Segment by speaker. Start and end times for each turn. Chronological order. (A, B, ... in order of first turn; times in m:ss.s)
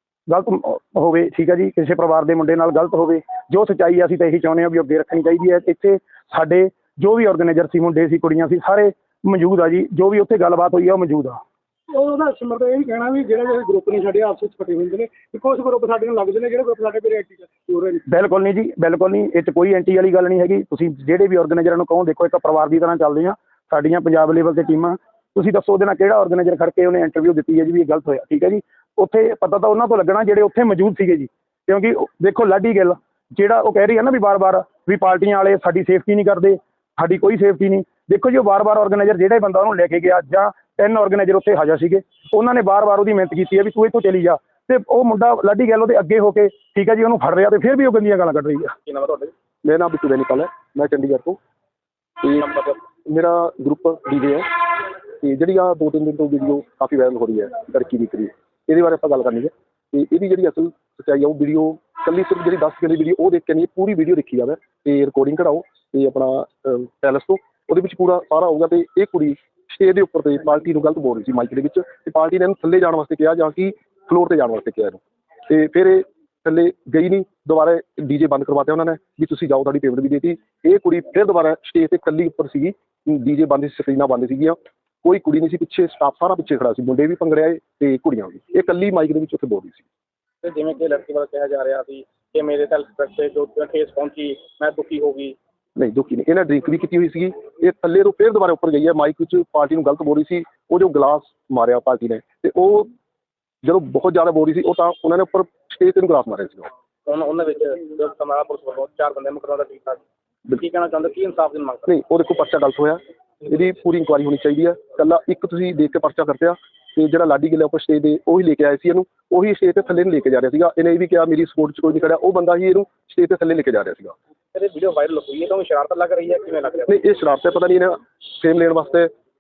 0:00.3-0:11.4 A
0:12.0-0:18.0 B
0:18.1-0:48.8 A
0:48.8-0:49.3 C
0:49.6-0:51.4 D
0:52.4-0:52.8 C
0:53.1-1:29.8 D
1:30.4-1:35.4 C
1:35.8-1:42.9 D
1:43.6-1:46.7 D
1:47.0-1:51.9 C
1:51.9-2:04.1 D
2:04.5-2:07.0 C
2:06.9-2:09.1 D